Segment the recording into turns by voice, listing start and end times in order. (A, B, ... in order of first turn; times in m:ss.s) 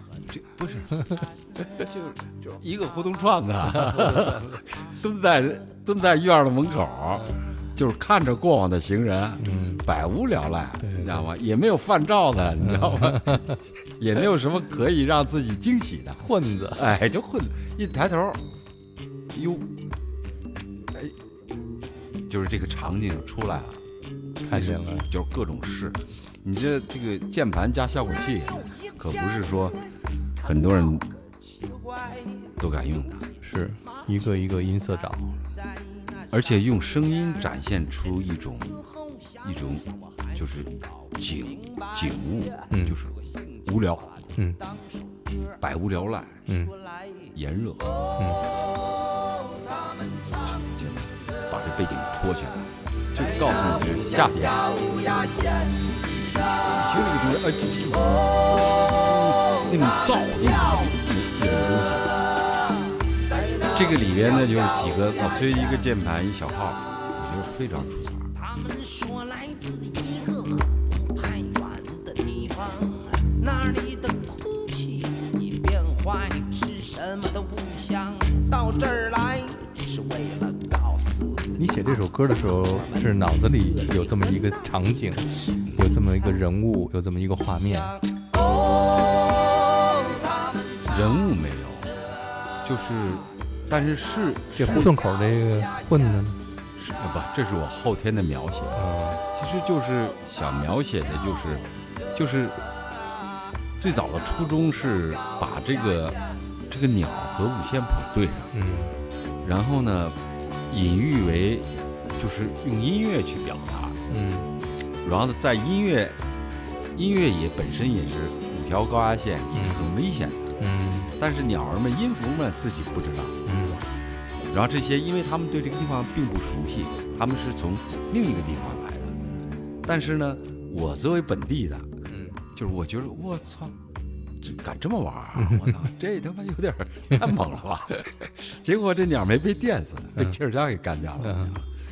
0:00.3-0:18.4 A
0:01.0-0:01.2 B
0:03.7-0:04.6 C
0:09.4-0:09.8 C
0:10.8-0:11.3 C
0:12.6-0:13.5 C
0:16.2-0:16.8 C
0:19.3-0:19.7 A
0:22.3-0:23.8 A
0:24.4-0:25.0 C
0:24.5-0:29.8 A
0:28.5-0:29.8 B
0:30.4-0:31.1 A
0:30.4-0:32.6 B
0:32.6-0:33.2 A
0:33.4-0:35.4 C
0:35.6-0:36.5 B
0:36.3-0:38.8 A
0:38.2-0:40.7 B
0:39.4-0:44.3 A
0:41.4-0:42.6 B
0:42.7-0:43.0 C
0:43.1-0:43.6 B
0:44.3-0:45.6 B
0:44.4-0:44.6 C
0:45.6-0:46.5 A
0:46.5-0:46.7 C
0:46.5-0:47.3 B
0:47.3-0:48.0 A
0:48.2-0:48.4 C
0:48.4-0:50.6 B
0:50.5-0:54.7 A
0:53.2-0:56.7 B
0:56.5-1:02.2 A
1:03.3-1:05.8 B
1:03.7-1:08.3 A
1:08.4-1:25.7 B
1:21.6-1:28.0 C
1:27.9-1:31.2 B
1:30.9-1:32.1 A
1:32.6-1:34.9 A
1:34.6-1:36.4 C
1:35.4-1:36.0 B
1:36.8-1:42.6 A
1:38.7-1:39.2 C
1:43.8-1:48.5 A
1:48.5-1:49.0 C
1:49.4-1:54.0 A
1:54.1-1:54.5 C
1:55.0-1:56.2 A
1:56.9-2:00.5 A
1:59.5-1:59.8 C
2:00.6-2:01.1 C
2:01.2-2:03.4 A
2:03.4-2:03.8 C
2:04.5-2:09.2 A
2:09.8-2:13.8 A
2:12.1-2:12.4 C
2:14.4-2:21.7 A
2:15.4-2:15.8 C
2:21.2-2:21.5 C